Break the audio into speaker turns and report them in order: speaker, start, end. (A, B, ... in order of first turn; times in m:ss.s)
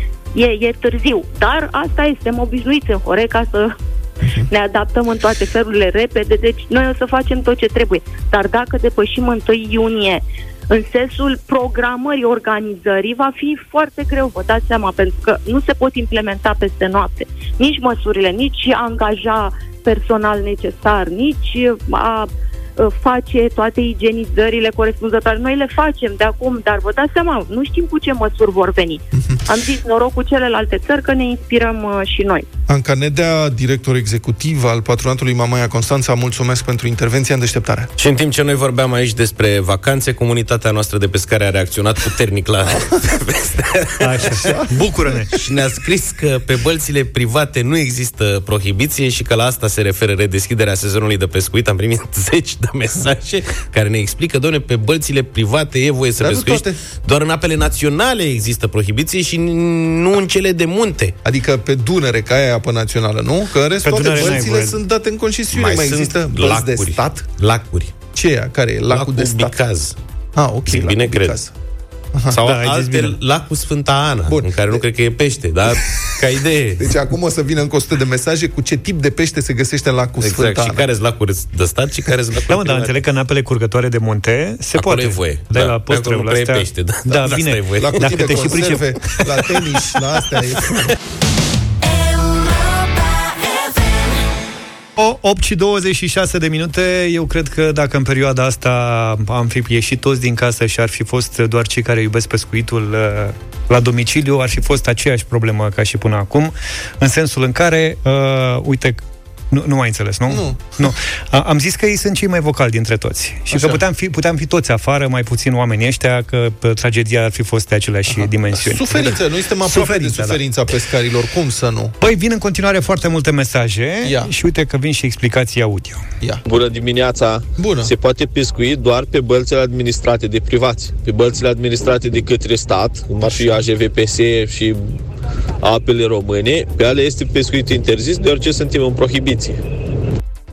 0:00.3-0:03.7 A
0:04.5-0:32.4 A
0:32.7-0:37.9 B
0:38.0-0:44.4 C
0:44.0-0:45.3 D
0:44.4-0:44.8 B
0:45.3-1:01.1 C
0:56.2-0:56.8 B
1:01.2-1:07.2 B
1:03.8-1:04.8 D
1:04.2-1:04.4 C
1:05.5-1:07.9 C
1:08.1-1:09.5 B
1:08.9-1:10.0 C
1:10.4-1:11.5 B
1:10.7-1:11.4 C
1:12.3-1:16.9 C
1:12.4-1:13.2 D
1:14.3-1:14.8 B
1:16.8-1:20.8 B
1:20.2-1:22.9 C
1:22.5-1:28.9 D
1:24.7-1:28.5 C
1:27.8-1:30.8 B
1:35.0-2:00.4 D
1:50.3-1:50.8 B
1:53.5-1:53.8 B
1:58.1-2:01.9 B
2:02.0-2:06.0 D
2:04.0-2:04.3 B
2:06.4-2:14.8 E
2:07.6-2:07.9 B
2:15.6-2:19.6 E